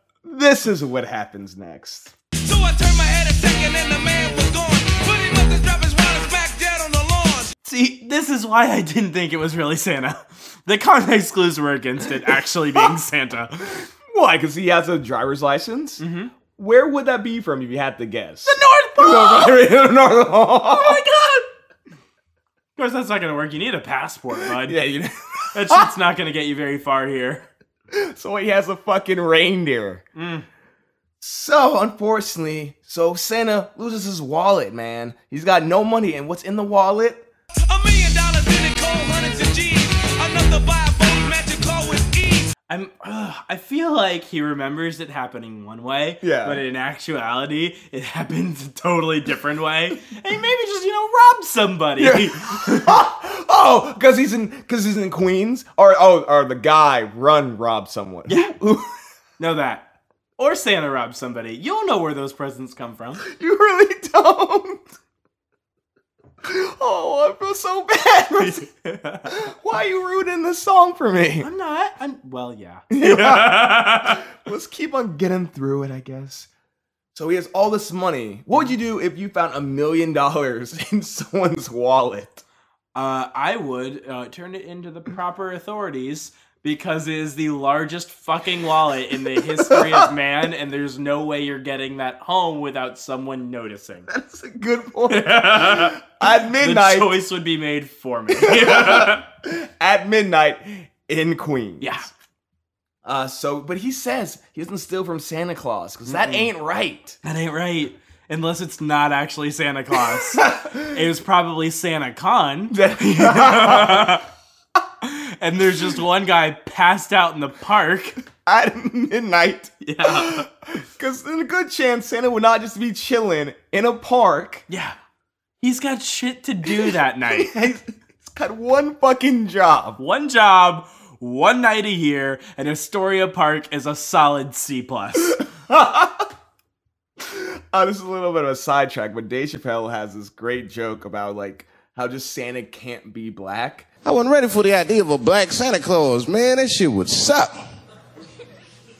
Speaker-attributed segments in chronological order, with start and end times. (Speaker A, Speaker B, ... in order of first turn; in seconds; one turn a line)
Speaker A: 0.2-2.1
Speaker B: 2.4-7.5
Speaker C: 7.7-13.8
Speaker A: 13.8-21.0
Speaker C: 16.0-16.3
Speaker C: 18.5-19.6
Speaker C: 20.6-21.5
Speaker C: 22.8-24.8
Speaker A: 24.5-25.9
Speaker C: 25.5-27.5
Speaker A: 27.9-30.0
Speaker C: 30.1-30.5
Speaker A: 31.2-37.3
Speaker B: 37.7-42.5
Speaker C: 42.7-53.0
Speaker A: 46.2-46.6
Speaker A: 52.0-58.9
Speaker C: 58.3-58.5
Speaker C: 59.4-63.2
Speaker A: 63.2-64.9
Speaker A: 66.4-68.7
Speaker C: 68.4-69.4
Speaker A: 69.3-71.5
Speaker C: 71.4-74.2
Speaker A: 72.9-76.5
Speaker A: 77.2-82.4
Speaker C: 83.0-94.1
Speaker A: 89.4-90.1
Speaker A: 94.1-97.1
Speaker C: 95.1-96.0
Speaker C: 96.6-99.2
Speaker A: 98.3-102.1
Speaker C: 101.8-102.1
Speaker A: 103.0-107.2
Speaker C: 106.1-106.5
Speaker C: 107.2-114.2
Speaker A: 110.0-111.0
Speaker A: 112.7-114.2
Speaker C: 115.0-118.2
Speaker A: 118.5-124.7
Speaker C: 119.8-120.5
Speaker C: 124.7-125.0
Speaker C: 125.6-127.5
Speaker A: 126.7-130.0
Speaker C: 130.0-135.4
Speaker A: 135.4-136.3
Speaker A: 137.2-143.9
Speaker D: 144.1-147.7